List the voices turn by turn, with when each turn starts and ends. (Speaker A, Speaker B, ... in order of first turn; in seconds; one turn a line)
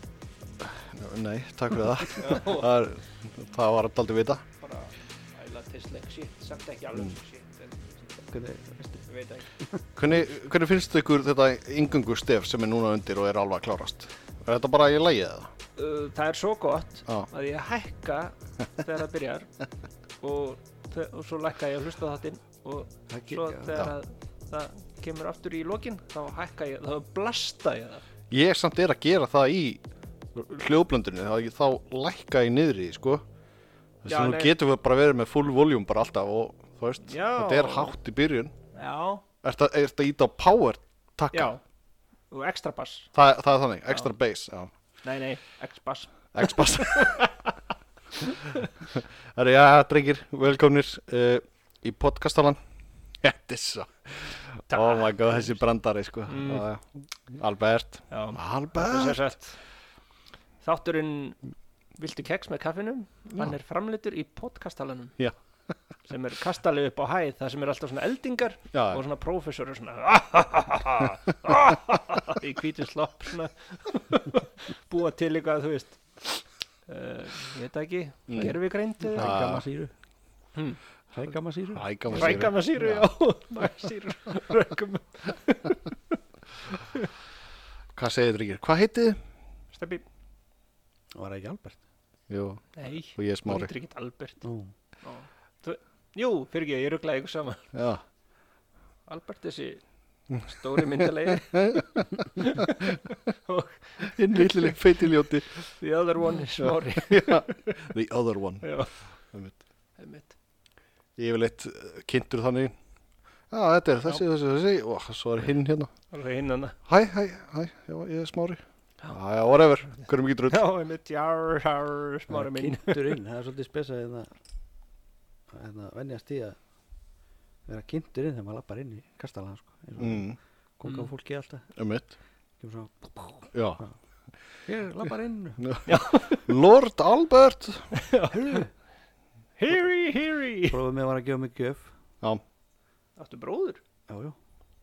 Speaker A: 0.6-4.5
Speaker B: 2.2-2.7
Speaker B: 4.6-8.0
Speaker C: 8.1-9.1
Speaker B: 9.1-9.5
Speaker A: 10.0-15.5
Speaker B: 15.8-19.5
Speaker B: 20.2-28.0
Speaker C: 23.1-23.8
Speaker A: 28.3-29.8
Speaker A: 30.3-33.2
Speaker A: 34.0-38.5
Speaker B: 34.1-34.5
Speaker B: 37.1-38.0
Speaker B: 38.7-39.2
Speaker A: 39.4-41.5
Speaker B: 41.3-41.6
Speaker B: 42.3-43.1
Speaker A: 43.1-44.7
Speaker B: 45.0-47.5
Speaker A: 46.4-47.3
Speaker B: 48.2-48.7
Speaker A: 48.9-52.6
Speaker A: 53.2-59.2
Speaker B: 54.7-55.5
Speaker B: 56.3-56.7
Speaker B: 58.1-59.6
Speaker B: 60.6-61.4
Speaker B: 62.0-65.2
Speaker B: 66.1-79.3
Speaker A: 68.7-69.0
Speaker A: 78.3-78.6
Speaker C: 79.0-79.9
Speaker A: 79.2-79.7
Speaker C: 81.1-82.4
Speaker A: 81.8-83.1
Speaker B: 82.1-85.9
Speaker B: 86.8-87.1
Speaker A: 88.0-89.2
Speaker B: 89.7-90.0
Speaker C: 91.2-91.8
Speaker A: 92.3-93.7
Speaker B: 92.8-94.4
Speaker C: 94.4-94.7
Speaker B: 95.0-97.7
Speaker A: 97.7-98.0
Speaker B: 99.1-99.8
Speaker B: 100.4-107.9
Speaker A: 101.3-103.0
Speaker A: 104.0-105.6
Speaker A: 106.6-108.8
Speaker B: 108.6-108.9
Speaker A: 109.3-109.6
Speaker B: 110.0-110.3
Speaker A: 111.2-112.8
Speaker A: 113.5-115.9
Speaker B: 116.1-116.8
Speaker A: 116.9-120.7
Speaker B: 120.5-123.2
Speaker C: 122.3-124.3
Speaker C: 125.5-126.6
Speaker C: 127.7-131.7
Speaker A: 130.0-130.4
Speaker B: 130.8-131.1
Speaker A: 131.8-132.1
Speaker C: 132.6-133.9
Speaker A: 133.5-133.8
Speaker C: 134.7-135.7
Speaker A: 135.6-137.9
Speaker B: 135.9-136.5
Speaker B: 137.9-138.7
Speaker C: 138.3-138.7
Speaker B: 139.6-140.8
Speaker C: 140.7-141.9
Speaker B: 143.2-143.8
Speaker C: 144.1-144.4